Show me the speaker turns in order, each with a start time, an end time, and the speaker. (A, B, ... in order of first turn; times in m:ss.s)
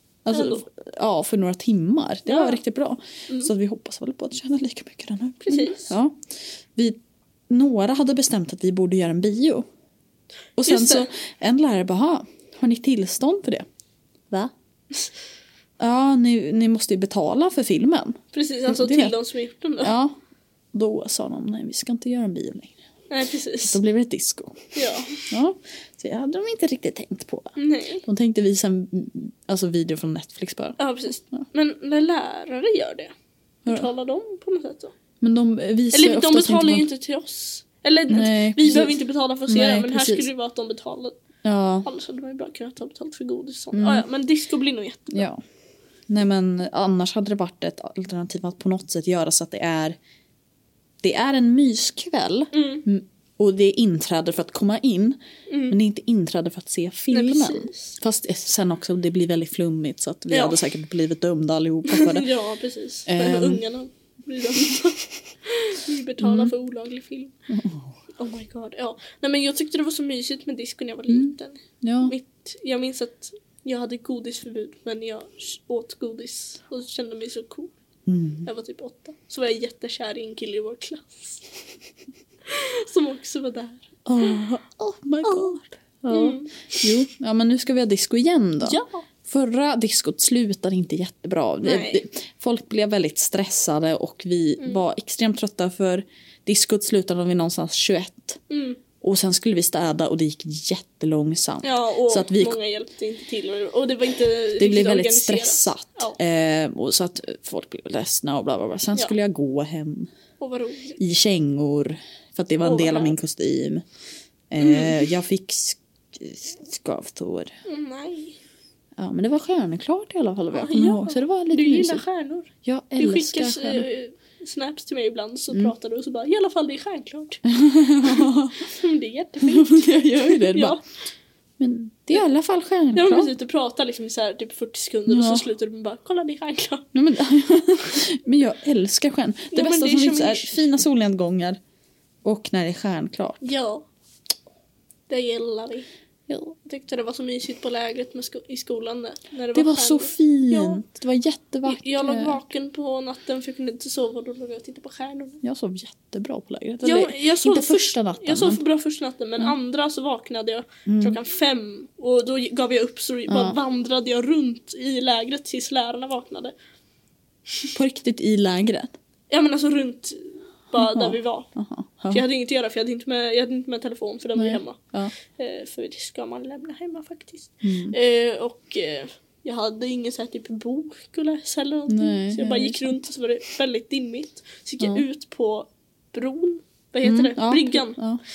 0:00.2-0:06.2 A
0:00.3-0:00.6 B
0:02.2-0:02.6 B
0:05.4-0:05.9 B
0:06.7-0:09.6 A
0:10.6-0:13.6 A
0:10.6-0:11.1 B
0:15.8-0:19.1 A
0:18.3-0:19.9 B
0:19.8-0:20.2 A
0:20.7-0:22.8 A
0:23.1-0:23.8 B
0:23.7-0:24.7 A
0:24.7-0:25.3 B
0:25.3-0:30.8 A
0:27.6-0:28.0 B
0:30.8-0:33.1 B
0:33.7-0:34.9 B
0:35.2-0:36.9 A
0:35.9-0:41.2 B
0:38.1-0:40.3 A
0:41.4-0:41.9 A
0:41.8-0:45.3 B
0:43.7-0:44.0 A
0:45.1-0:45.4 A
0:46.1-0:50.0 A
0:51.0-0:55.2 A
0:52.5-0:52.8 B
0:55.5-0:55.8 B
0:55.7-1:02.3 A
0:57.1-0:58.0 B
1:00.3-1:00.6 B
1:01.9-1:07.3 B
1:03.1-1:03.6 A
1:06.2-1:06.5 A
1:07.5-1:07.9 A
1:08.2-1:17.7 B
1:11.1-1:12.1 A
1:18.1-1:18.5 A
1:18.4-1:21.4 B
1:22.5-1:24.4 B
1:24.0-1:38.4 A
1:25.2-1:25.5 B
1:26.1-1:26.8 B
1:28.6-1:29.0 B
1:31.6-1:32.0 B
1:38.5-1:38.8 B
1:39.0-1:42.6 A
1:41.6-1:46.2 B
1:44.6-1:50.1 A
1:50.4-1:51.0 B
1:51.0-1:53.8 A
1:52.6-1:53.1 B
1:54.5-1:57.5 A
1:54.6-1:55.0 B
1:57.6-1:58.4 B
1:59.0-2:02.0 A
2:00.5-2:07.4 B
2:02.6-2:03.8 A
2:07.5-2:08.7 A
2:08.0-2:10.8 B
2:09.4-2:10.8 A
2:11.6-2:13.3 A
2:12.9-2:16.9 B
2:15.1-2:15.4 A
2:16.9-2:21.6 A
2:19.5-2:20.6 B
2:22.2-2:23.4 A
2:23.4-2:23.8 B
2:25.1-2:25.9 B
2:26.3-2:26.6 A
2:26.6-2:30.8 B
2:29.5-2:32.4 A
2:31.6-2:35.4 B
2:35.4-2:38.6 A
2:36.8-2:46.5 B
2:40.8-2:41.2 A
2:43.3-2:43.6 A
2:47.7-2:48.9 A
2:49.3-2:51.5 B
2:50.8-2:52.2 A
2:52.1-3:08.0 B
2:54.3-2:55.1 A
2:57.6-2:58.0 A
3:01.9-3:03.0 A
3:07.0-3:08.2 A